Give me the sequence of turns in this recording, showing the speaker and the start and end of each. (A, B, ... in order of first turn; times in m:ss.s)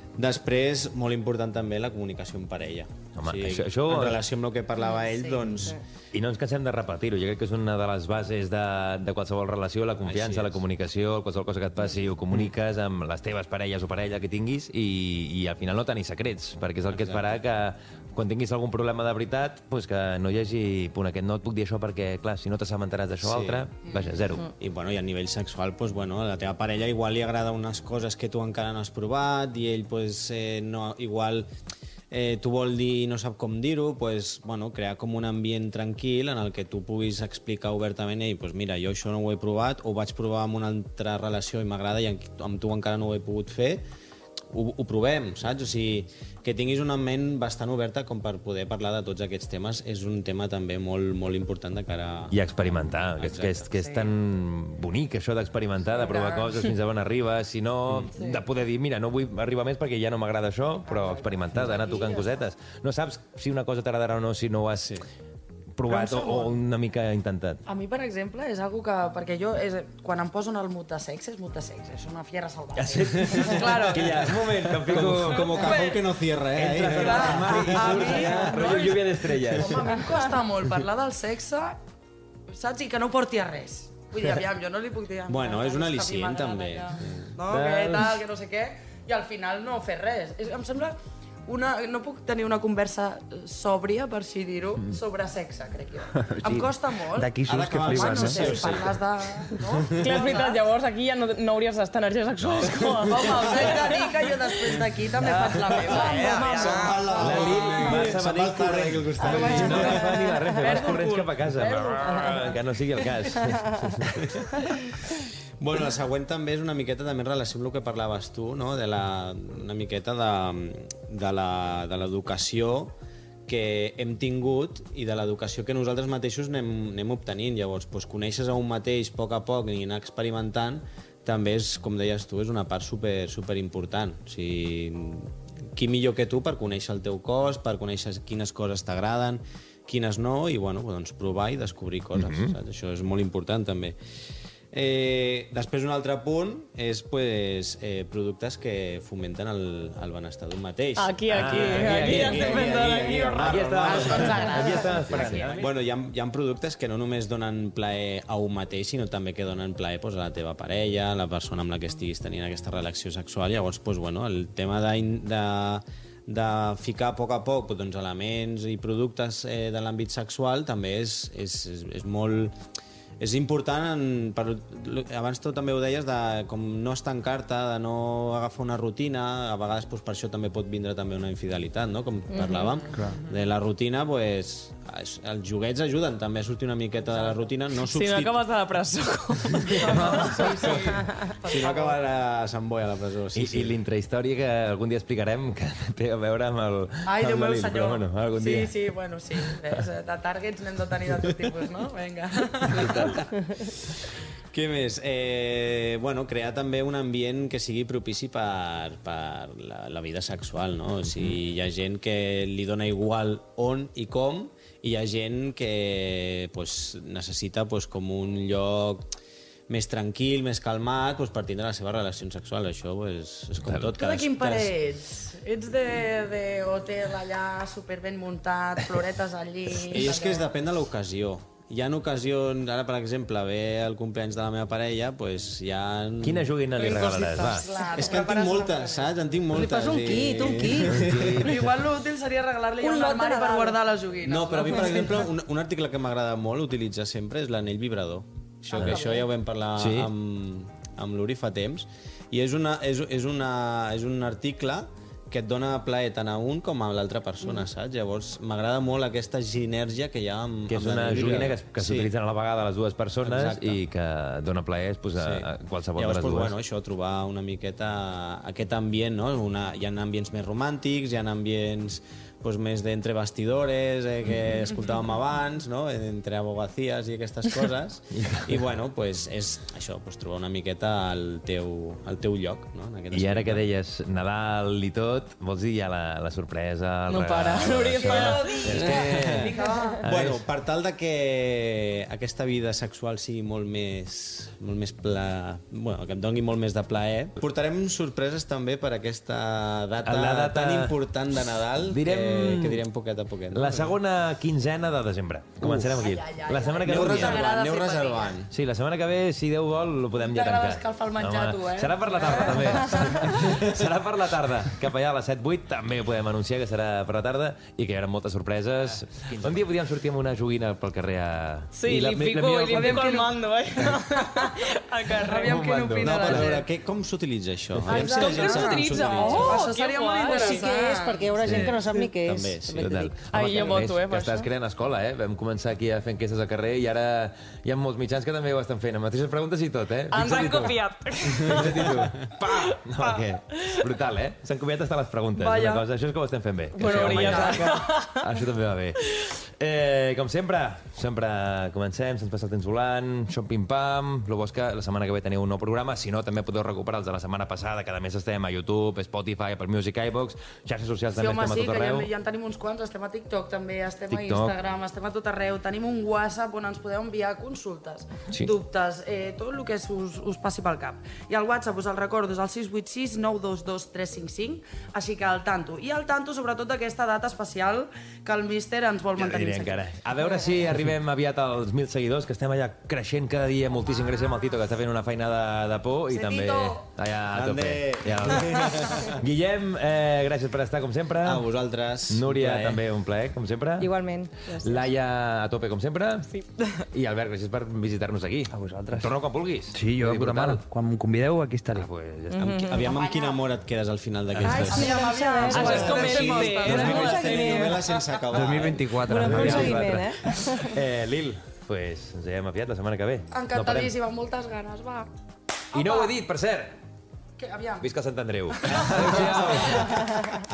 0:00.2-0:05.8 A
0:03.2-0:04.2 B
0:06.1-0:24.5 B
0:10.0-0:10.6 A
0:16.9-0:17.4 A
0:23.2-0:23.6 A
0:24.6-0:31.5 A
0:32.1-0:43.8 A
0:44.5-0:52.4 A
0:52.3-1:05.0 B
0:53.2-0:53.7 A
0:55.9-0:56.6 C
0:58.1-0:58.4 C
1:00.8-1:02.4 C
1:05.8-1:07.6 B
1:05.9-1:06.5 C
1:07.6-1:14.4 C
1:12.8-1:15.8 B
1:13.3-1:18.8 A
1:15.3-1:16.2 C
1:16.5-1:20.0 B
1:16.8-1:19.0 C
1:19.6-1:21.8 C
1:22.5-1:31.0 C
1:25.3-1:27.3 A
1:27.4-1:28.2 B
1:31.5-1:40.6 C
1:36.4-1:38.8 D
1:37.4-1:39.0 A
1:40.0-1:44.0 E
1:42.4-1:43.8 B
1:43.1-1:48.1 C
1:45.4-1:46.1 B
1:45.7-1:50.2 A
1:46.0-1:47.0 F
1:47.2-1:54.2 B
1:49.2-1:52.6 C
1:50.6-1:50.9 E
1:53.2-1:53.6 C
1:54.0-1:54.4 A
1:55.6-2:02.9 A
2:03.5-2:24.0 A
2:22.1-2:22.5 B
2:24.7-2:52.6 A
2:31.0-2:33.7 E
2:31.3-2:32.7 B
2:33.4-2:35.6 B
2:33.8-2:35.7 C
2:53.2-3:08.4 A
3:07.8-3:11.0 E
3:09.7-3:13.8 A
3:09.8-3:10.6 B
3:09.9-3:12.0 C
3:13.3-3:18.7 B
3:17.0-3:23.2 C
3:19.4-3:19.8 B
3:22.7-3:23.2 B
3:24.5-3:39.0 A
3:39.7-3:44.7 A
3:43.9-3:50.5 C
3:49.8-4:01.6 A
3:56.2-3:57.7 B
3:56.8-3:59.2 C
3:59.5-4:01.3 F
4:00.8-4:01.6 B
4:01.4-4:05.3 C
4:02.8-4:03.8 F
4:04.2-4:22.1 A
4:08.7-4:09.3 C
4:09.8-4:10.1 B
4:20.7-4:26.6 B
4:23.2-4:23.8 A
4:25.2-4:43.6 A
4:38.2-4:38.4 B
4:43.1-4:50.4 B
4:47.1-4:49.6 E
4:48.7-5:03.9 A
4:49.5-4:50.0 C
5:00.0-5:01.0 B
5:01.8-5:02.8 B
5:03.5-5:07.5 B
5:05.6-5:06.0 A
5:06.0-5:08.4 C
5:06.8-5:08.5 A
5:08.5-5:23.1 B
5:10.2-5:13.5 C
5:19.2-5:19.6 D
5:21.7-5:25.7 E
5:22.7-5:23.3 C
5:25.3-5:26.7 C
5:25.3-5:26.5 B
5:25.9-5:29.6 A
5:27.9-5:30.7 E
5:28.0-5:28.3 C
5:29.2-5:32.1 C
5:29.2-5:29.5 F
5:30.3-5:33.1 F
5:31.4-5:31.8 B
5:32.2-5:33.1 A
5:32.8-6:02.1 B
5:33.3-5:34.5 E
5:40.1-5:41.9 E
5:42.5-5:43.9 E
5:45.4-5:45.8 C
5:46.8-5:48.2 E
5:46.8-5:47.8 C
6:01.1-6:19.8 C
6:04.1-6:04.6 B
6:19.2-6:31.5 B
6:26.1-6:26.8 C
6:27.3-6:29.2 A
6:31.2-6:32.8 A
6:32.1-6:33.9 B
6:33.8-6:34.9 F
6:34.6-6:36.3 B
6:36.3-6:36.8 E
6:36.9-6:40.6 B
6:38.5-6:39.1 D
6:39.7-6:41.9 D
6:41.7-6:42.7 B
6:42.3-6:42.9 E
6:42.4-6:48.9 A
6:42.8-6:43.4 C
6:44.3-6:44.7 B
6:44.4-6:47.9 F
6:44.6-6:47.8 C
6:45.5-6:47.7 E
6:48.3-6:50.0 D
6:49.0-6:50.8 F
6:49.1-6:53.9 B
6:53.3-6:55.1 C
6:55.7-6:56.8 B
6:55.7-6:56.1 C
6:57.4-6:57.9 C
6:57.8-7:00.0 B
6:58.5-7:00.1 C